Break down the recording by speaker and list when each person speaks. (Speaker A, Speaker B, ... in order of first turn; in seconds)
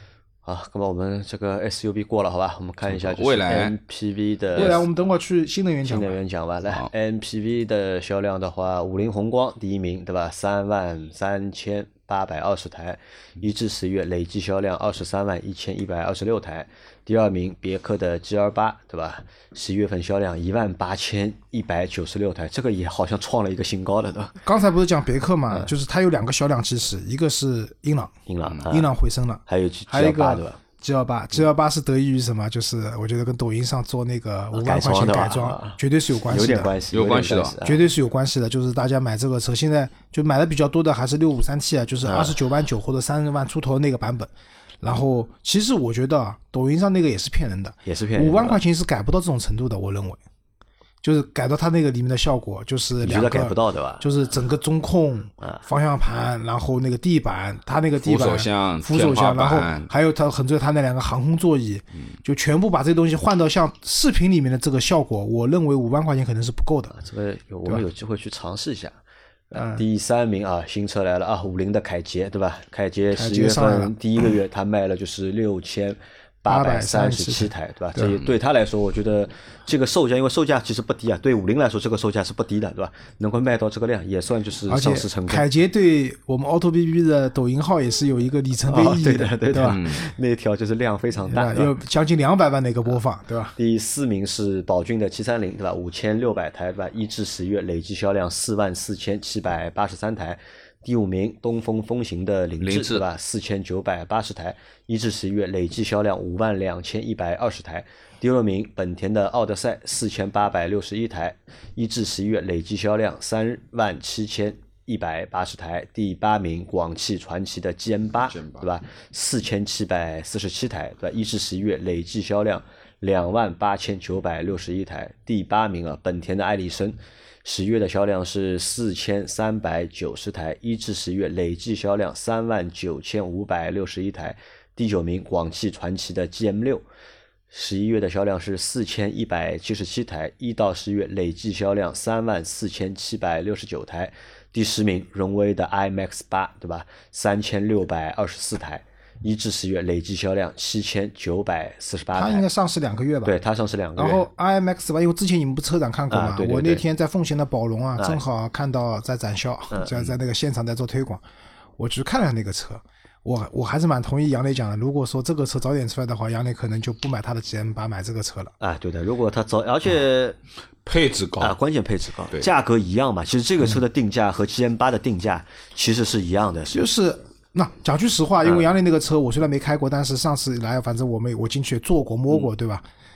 Speaker A: 0.5-4.8, 5.8-24.4, 28.3-28.9, 29.5-30.6, 34.5-37.9, 42.0-42.4, 47.9-48.6, 53.0-54.0, 66.9-69.0, 69.5-85.5, 88.7-91.7, 93.6-136.8, 137.5-152.5, 153.2-154.3, 156.1-156.8, 159.7-160.2, 168.6-170.4, 171.4-176.8
Speaker B: 2.9-3.8, 36.9-37.6, 58.0-59.9, 89.6-90.0, 102.6-103.0, 118.3-118.6, 170.8-171.6
Speaker C: 4.5-6.2, 24.4-28.1, 28.7-36.8, 37.6-44.3, 44.8-50.2, 51.0-66.9, 69.5-69.8, 73.2-73.9, 76.5-78.2, 84.7-89.8, 91.3-93.5, 152.2-153.3, 154.0-161.2, 161.8-168.5, 176.7-182.8